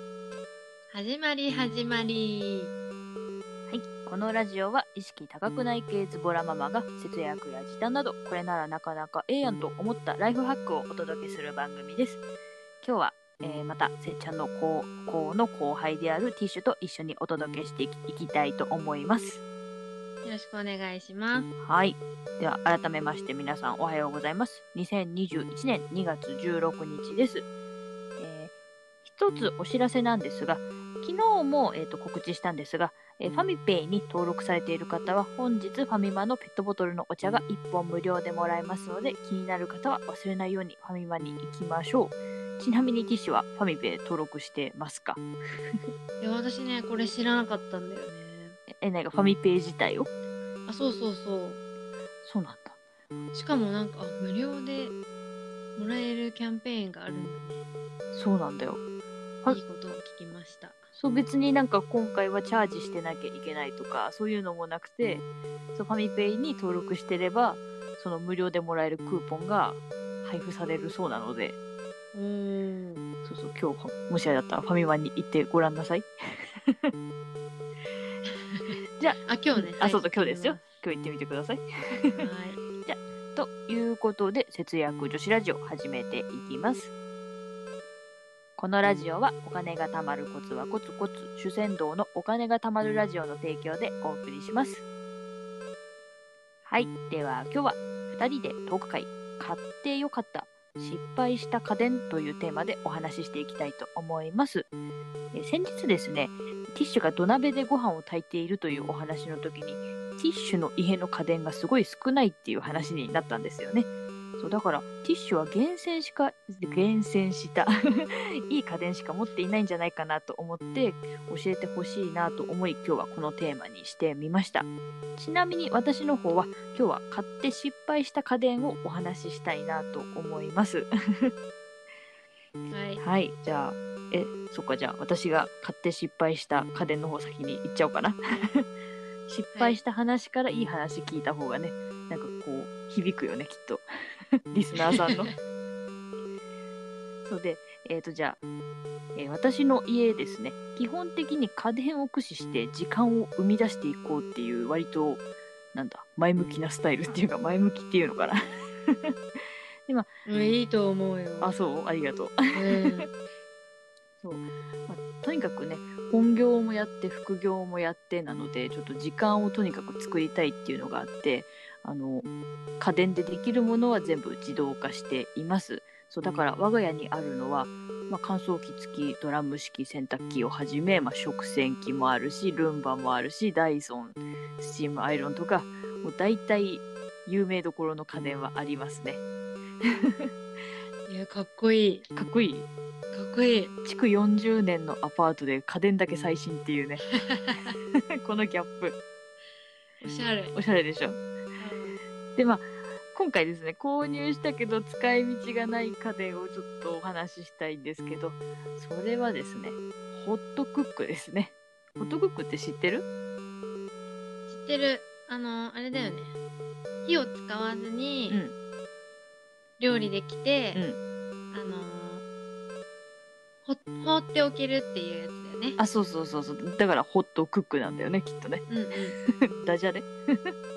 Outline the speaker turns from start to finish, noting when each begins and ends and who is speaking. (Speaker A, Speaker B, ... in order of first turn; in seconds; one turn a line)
Speaker A: 0.9-2.7
Speaker B: 3.7-12.2
Speaker B: 12.8-19.4
Speaker A: 20.2-21.5
Speaker B: 21.6-27.5
Speaker B: 28.2-28.5
Speaker B: 29.0-45.2
Speaker A: 46.2-48.6
Speaker B: 48.7-50.1
Speaker A: 50.7-51.6
Speaker B: 52.2-52.8
Speaker A: 53.3-55.0
Speaker A: 55.8-57.6
Speaker B: 58.1-58.8
Speaker A: 59.5-60.9
Speaker B: 61.0-71.6
Speaker A: 72.1-73.0
Speaker B: 73.2-76.9
Speaker A: 78.3-80.6
Speaker B: 79.0-82.3
Speaker A: 82.1-82.6
Speaker B: 82.8-86.9
Speaker B: 88.6-94.8
Speaker B: 96.7-104.7
Speaker B: 105.3-131.3
Speaker A: 132.7-133.0
Speaker B: 133.0-138.7
Speaker B: 139.3-143.9
Speaker A: 139.5-139.8
Speaker B: 144.5-145.3
Speaker A: 144.8-145.3
Speaker B: 147.2-148.4
Speaker B: 149.2-155.2
Speaker B: 155.7-159.1
Speaker A: 160.3-161.5
Speaker B: 161.4-162.4
Speaker A: 162.5-163.1
Speaker B: 164.2-172.3
Speaker B: 172.8-189.2
Speaker A: 191.1-192.1
Speaker B: 192.2-192.7
Speaker A: 193.1-193.7
Speaker B: 193.8-197.1
Speaker A: 197.1-197.8
Speaker B: 198.2-199.0
Speaker A: 200.0-200.6
Speaker B: 200.5-201.2
Speaker A: 201.6-202.0
Speaker B: 202.4-213.1
Speaker A: 214.5-216.3
Speaker A: 217.0-218.4
Speaker A: 219.8-220.8
Speaker A: 221.5-222.2
Speaker A: 223.7-225.8
Speaker B: 225.8-228.7
Speaker A: 228.7-229.2
Speaker B: 229.2-230.5